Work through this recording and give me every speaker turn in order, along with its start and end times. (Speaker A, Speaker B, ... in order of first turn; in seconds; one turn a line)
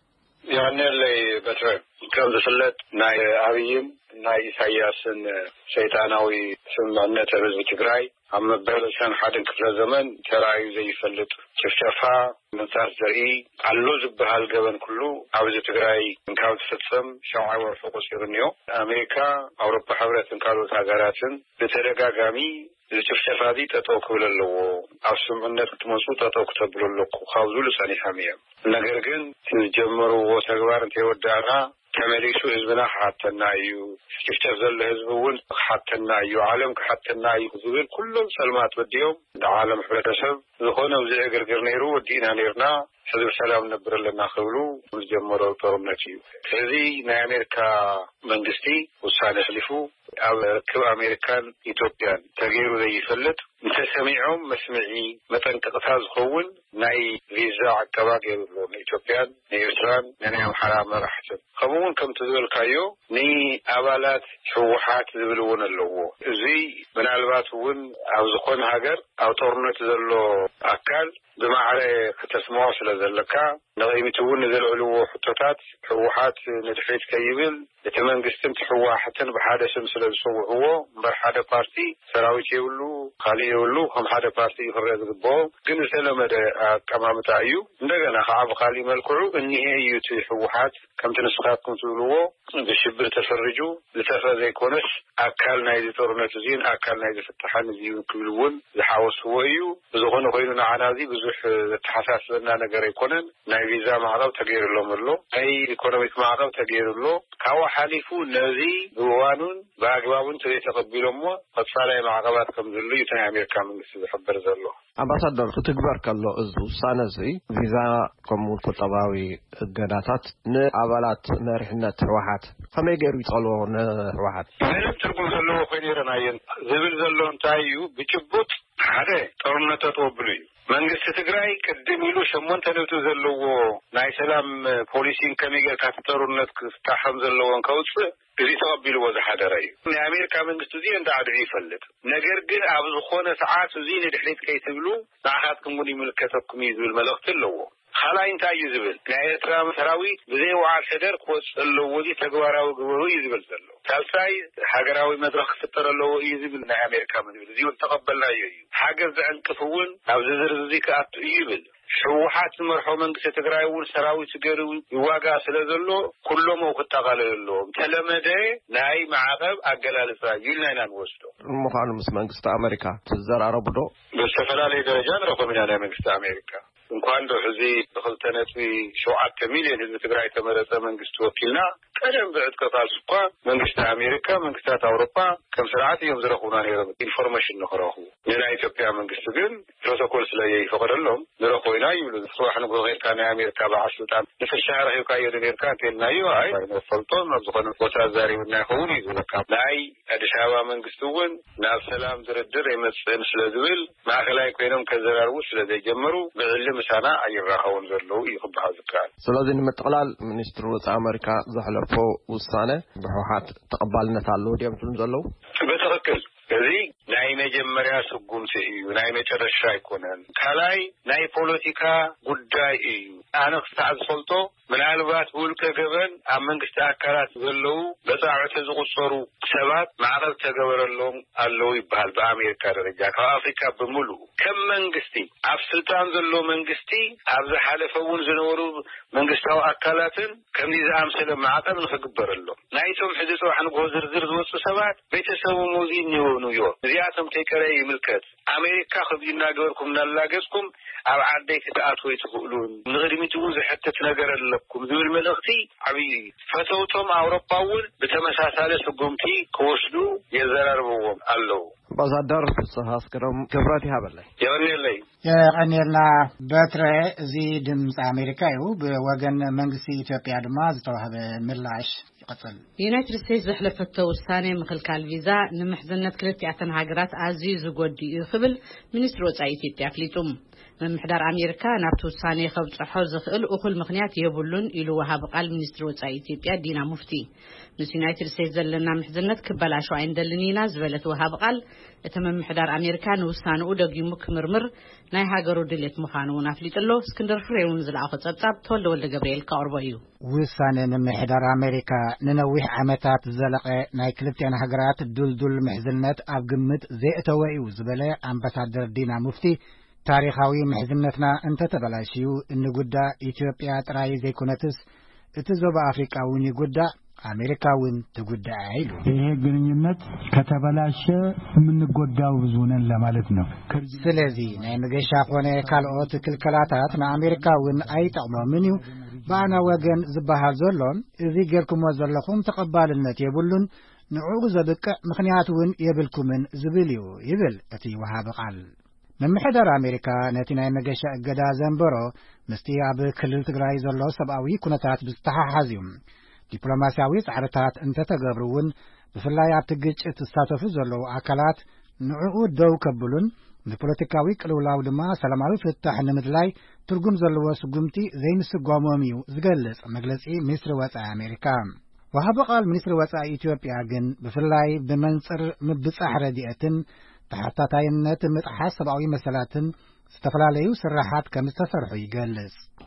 Speaker A: 0.5-114.7
Speaker B: 115.0-124.5
Speaker A: 124.6-171.3
Speaker B: 171.5-173.9
Speaker A: 174.2-209.1
Speaker B: 209.2-215.3
Speaker A: 215.6-261.7
Speaker B: 261.9-264.3
Speaker A: 264.4-265.0
Speaker C: 265.2-272.6
Speaker D: 272.8-287.3
Speaker D: 287.8-300.0
Speaker C: 300.3-314.8
Speaker C: 315.4-319.0
Speaker E: 319.1-330.1
Speaker C: 323.9-338.6
Speaker C: 339.2-345.9
Speaker C: 346.5-372.6